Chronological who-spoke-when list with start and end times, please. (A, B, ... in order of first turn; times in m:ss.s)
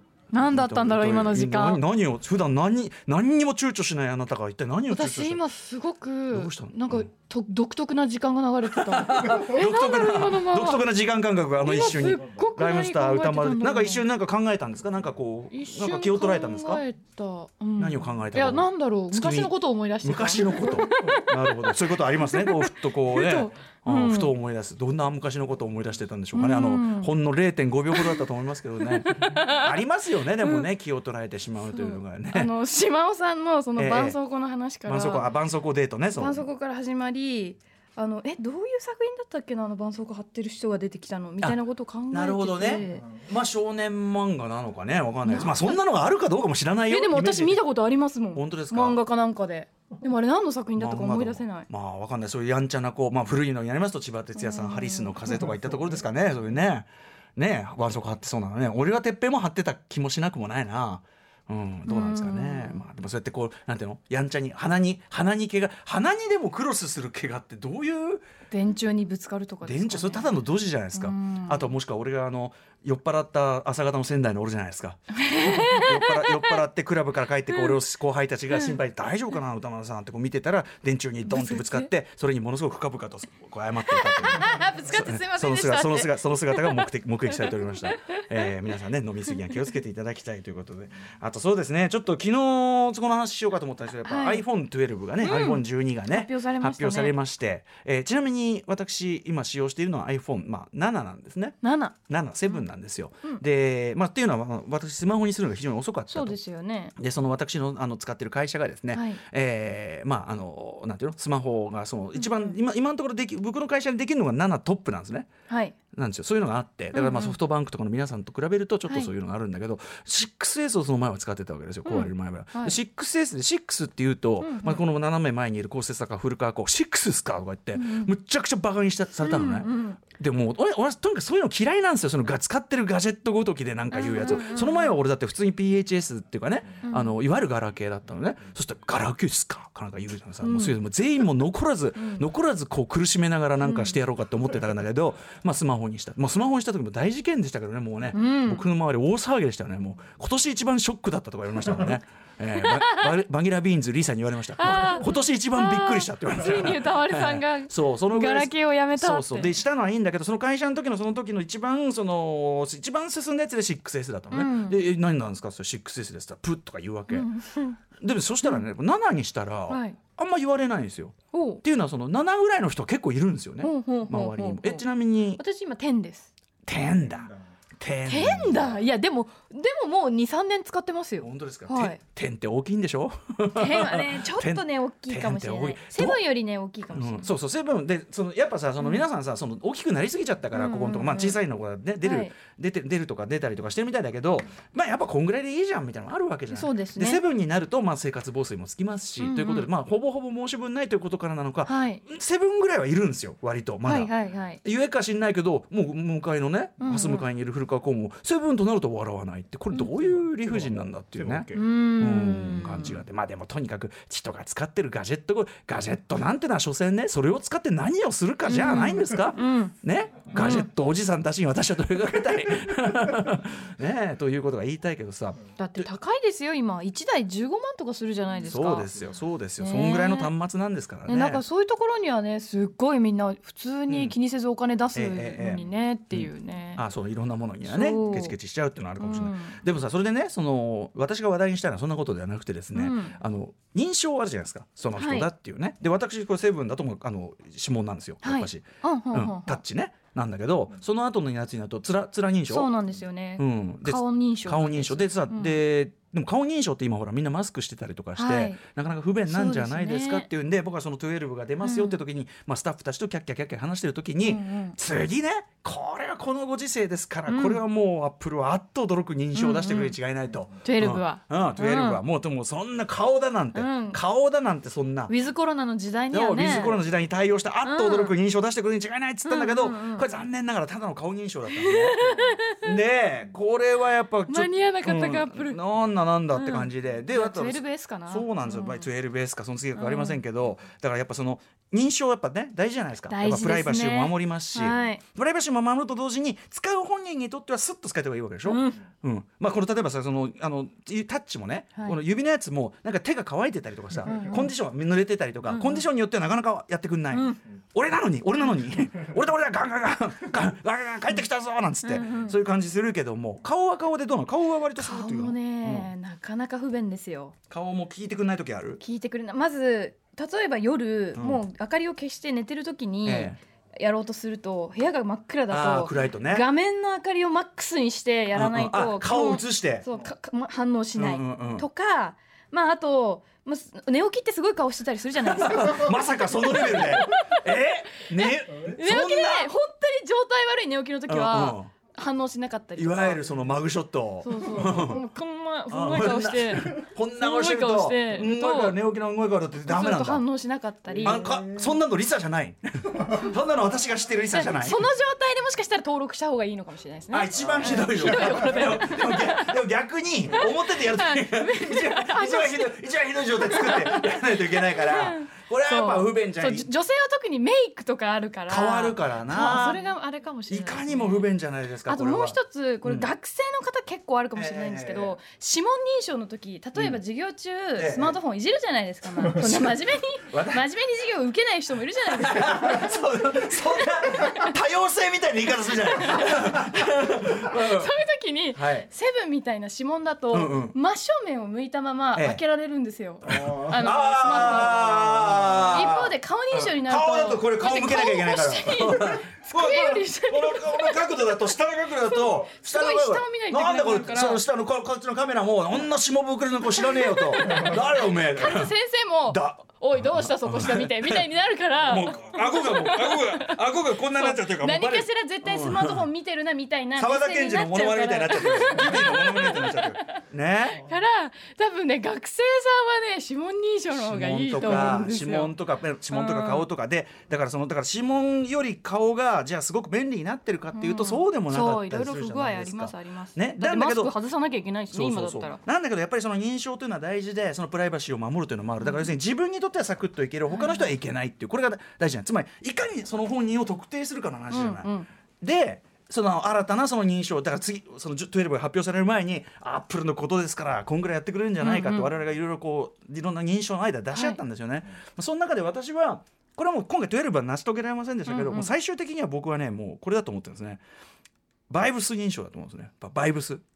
0:00.3-0:01.8 A
0:00.4-0:05.4 B
0:04.9-0:10.9 A
0:06.3-0:07.1 B
0:08.7-0:16.8 B
0:11.6-0:14.0 A
0:15.5-0:24.3 A
0:17.8-0:32.5 B
0:26.3-0:27.1 A
0:27.9-0:28.3 A
0:28.8-0:29.8 A
0:30.4-0:30.7 A
0:31.7-0:35.3 A
0:33.8-0:34.2 B
0:34.8-0:36.5 B
0:36.1-0:43.1 A
0:42.1-0:47.6 B
0:45.2-0:45.8 A
0:46.9-0:51.7 A
0:48.3-0:49.0 B
0:50.8-1:08.2 B
0:54.4-0:55.2 A
1:01.9-1:02.8 A
1:08.5-1:10.3 A
1:09.6-1:41.6 B
1:10.9-1:11.7 A
1:15.2-1:16.6 A
1:17.5-1:17.8 A
1:18.5-1:18.8 A
1:21.3-1:21.9 A
1:23.9-1:28.5 A
1:34.0-1:34.4 A
1:35.2-1:37.2 A
1:41.6-1:42.0 A
1:42.1-1:46.4 B
1:46.1-1:47.0 A
1:47.0-1:55.3 B
1:48.9-1:49.2 A
1:52.2-1:52.6 A
1:55.5-1:55.8 A
1:55.9-2:47.3 B
1:56.9-1:57.4 A
1:58.9-1:59.1 A
2:01.8-2:02.8 A
2:04.4-2:04.8 A
2:07.8-2:08.1 A
2:09.2-2:10.0 A
2:13.9-2:15.0 A
2:16.8-2:17.2 A
2:20.4-2:20.8 A
2:22.0-2:22.2 A
2:23.6-2:24.0 A
2:28.1-2:28.6 A
2:32.6-2:33.2 A
2:34.6-2:39.5 A
2:44.3-2:44.8 A
2:47.1-2:47.8 A
2:48.0-2:55.4 B
2:49.7-2:50.0 A
2:51.3-2:51.6 A
2:53.6-2:56.3 A
2:56.7-2:58.8 B
2:58.1-3:02.0 A
3:01.2-3:06.2 B
3:03.5-3:07.3 A
3:06.9-3:45.9 B
3:08.8-3:09.1 A
3:10.5-3:11.4 A
3:12.0-3:12.3 A
3:16.5-3:17.2 A
3:19.2-3:19.7 A
3:21.6-3:22.0 A
3:23.8-3:24.6 A
3:26.8-3:27.3 A
3:31.5-3:33.0 A
3:38.5-3:39.7 A
3:40.3-3:40.7 A
3:45.6-3:48.9 A
3:48.4-3:51.4 B
3:49.6-3:50.3 A
3:51.1-3:56.8 A
3:53.9-3:54.2 B
3:54.9-4:12.7 B
3:57.6-3:58.4 A
3:59.0-3:59.6 A
4:02.8-4:03.2 A
4:05.0-4:05.3 A
4:08.2-4:09.6 A
4:12.5-4:15.6 A
4:13.4-4:35.1 B
4:18.2-4:18.6 A
4:19.3-4:20.3 A
4:21.6-4:22.0 A
4:24.2-4:24.8 A
4:27.3-4:27.6 A
4:29.3-4:30.0 A
4:30.6-4:32.0 A
4:33.5-4:34.0 A
4:35.1-4:36.8 A
4:36.1-5:15.9 B
4:37.6-4:38.2 A
4:39.2-4:40.1 A
4:41.5-4:42.7 A
4:44.3-4:45.6 A
4:46.3-4:48.9 A
4:49.8-4:50.2 A
4:53.1-4:55.0 A
4:58.4-4:58.8 A
5:04.0-5:04.5 A
5:05.5-5:05.8 A
5:07.1-5:07.4 A
5:11.8-5:12.4 A
5:14.8-5:17.3 A
5:17.5-5:18.8 B
5:18.8-5:37.5 A
5:21.2-5:21.4 B
5:23.0-5:23.4 B
5:25.5-5:26.5 B
5:28.3-5:29.9 B
5:31.0-5:31.7 B
5:35.2-5:39.5 B
5:38.2-5:43.2 A
5:41.1-5:41.7 B
5:42.8-5:45.0 B
5:44.2-5:48.8 A
5:45.7-5:50.2 B
5:49.7-5:51.3 A
5:51.0-5:54.8 B
5:54.3-5:59.6 A
5:57.1-6:06.7 B
6:00.3-6:11.3 A
6:08.5-6:09.8 B
6:10.5-6:13.1 B
6:11.9-6:22.9 A
6:14.3-6:15.2 B
6:17.8-6:18.2 B
6:19.2-6:20.7 B
6:22.1-6:27.9 B
6:23.8-6:24.6 A
6:25.7-6:41.4 A
6:28.5-6:28.9 B
6:30.3-6:30.8 B
6:32.2-6:32.4 B
6:33.3-6:48.7 B
6:42.1-6:44.4 A
6:46.7-7:05.6 A
6:49.3-6:51.3 B
6:51.9-6:56.1 B
6:57.0-7:00.8 B
7:03.9-7:14.2 B
7:06.1-7:06.7 A
7:10.7-7:15.6 A
7:14.9-7:40.8 B
7:18.8-7:19.1 A
7:20.5-7:20.9 A
7:24.5-7:25.1 A
7:31.6-7:32.1 A
7:34.1-7:34.4 A
7:38.3-7:38.7 A
7:41.7-7:43.6 B